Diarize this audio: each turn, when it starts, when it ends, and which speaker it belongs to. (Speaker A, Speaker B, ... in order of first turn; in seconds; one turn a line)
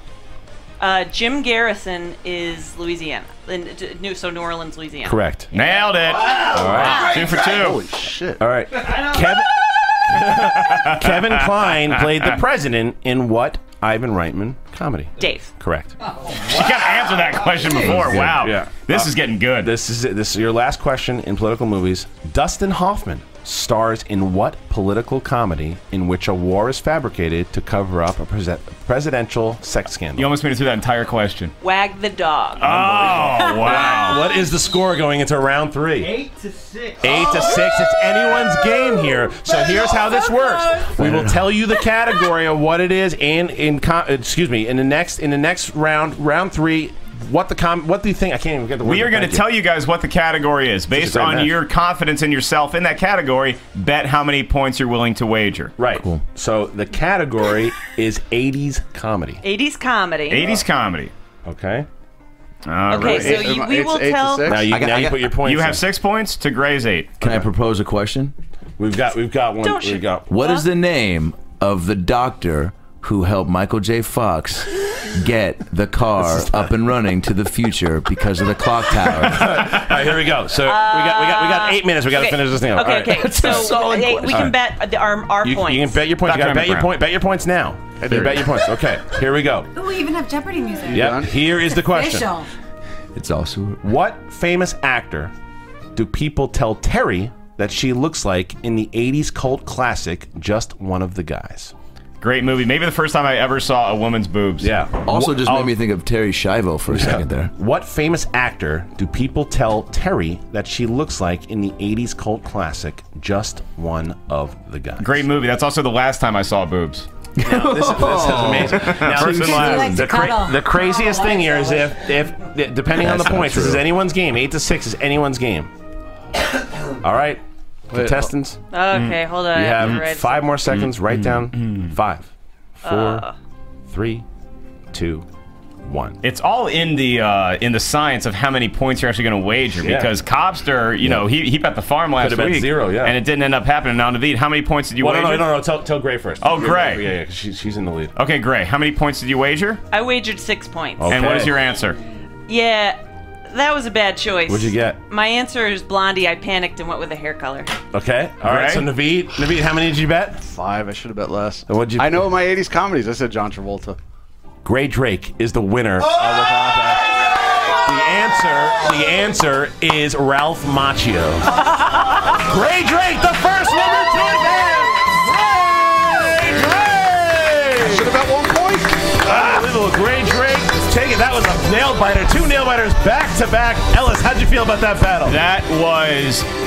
Speaker A: 0.8-5.6
Speaker B: 5.0-5.5
Speaker C: 5.5-7.8
Speaker B: 6.5-7.5
Speaker D: 7.5-8.4
Speaker B: 8.4-15.9
Speaker C: 10.1-12.3
Speaker A: 15.2-15.5
Speaker C: 16.2-19.7
Speaker B: 17.8-30.3
Speaker C: 30.2-31.6
Speaker A: 31.6-32.7
Speaker C: 32.6-34.3
Speaker B: 32.6-36.1
Speaker A: 33.4-34.1
Speaker C: 36.0-37.5
Speaker B: 37.0-49.5
Speaker E: 41.0-41.5
Speaker C: 48.8-55.7
Speaker B: 50.9-51.6
Speaker B: 55.8-59.4
Speaker E: 56.0-56.2
Speaker A: 59.4-60.5
Speaker C: 60.3-61.1
Speaker B: 61.5-61.9
Speaker C: 62.7-63.4
Speaker A: 62.9-64.6
Speaker D: 62.9-64.6
Speaker B: 63.0-63.4
Speaker B: 64.5-65.8
Speaker E: 64.7-65.3
Speaker C: 65.4-67.2
Speaker B: 67.2-67.5
Speaker E: 67.2-68.3
Speaker B: 68.8-70.3
Speaker A: 69.6-70.7
Speaker E: 70.3-79.6
Speaker B: 76.2-76.7
Speaker B: 79.0-84.6
Speaker A: 80.6-86.0
Speaker E: 83.1-84.5
Speaker B: 85.4-89.8
Speaker C: 86.2-86.9
Speaker D: 88.0-88.5
Speaker F: 89.8-91.0
Speaker B: 90.9-92.4
Speaker D: 91.0-91.4
Speaker F: 91.6-92.5
Speaker E: 93.1-93.8
Speaker B: 93.8-95.3
Speaker B: 96.0-101.7
Speaker C: 102.2-104.8
Speaker B: 104.6-105.8
Speaker E: 105.0-107.5
Speaker B: 106.9-115.3
Speaker C: 115.0-117.1
Speaker E: 117.4-120.3
Speaker B: 117.4-125.7
Speaker C: 118.6-120.0
Speaker F: 119.7-121.8
Speaker E: 122.9-123.8
Speaker B: 127.0-128.6
Speaker D: 127.9-128.3
Speaker A: 128.7-130.5
Speaker C: 128.9-129.2
Speaker B: 129.5-132.3
Speaker C: 129.8-130.0
Speaker C: 130.7-131.9
Speaker B: 132.8-133.2
Speaker A: 132.8-133.3
Speaker B: 133.9-134.2
Speaker B: 134.9-135.3
Speaker B: 135.8-136.2
Speaker C: 136.2-145.5
Speaker B: 139.8-140.1
Speaker B: 142.2-143.2
Speaker B: 145.0-148.1
Speaker C: 146.4-147.1
Speaker C: 148.2-149.8
Speaker A: 149.9-151.4
Speaker B: 151.0-151.6
Speaker C: 151.1-152.0
Speaker A: 152.5-157.7
Speaker B: 154.5-155.0
Speaker B: 157.9-160.4
Speaker C: 158.4-158.9
Speaker D: 160.4-164.0
Speaker B: 161.7-162.2
Speaker B: 164.6-178.2
Speaker D: 177.8-179.7
Speaker B: 179.0-185.4
Speaker C: 185.2-186.5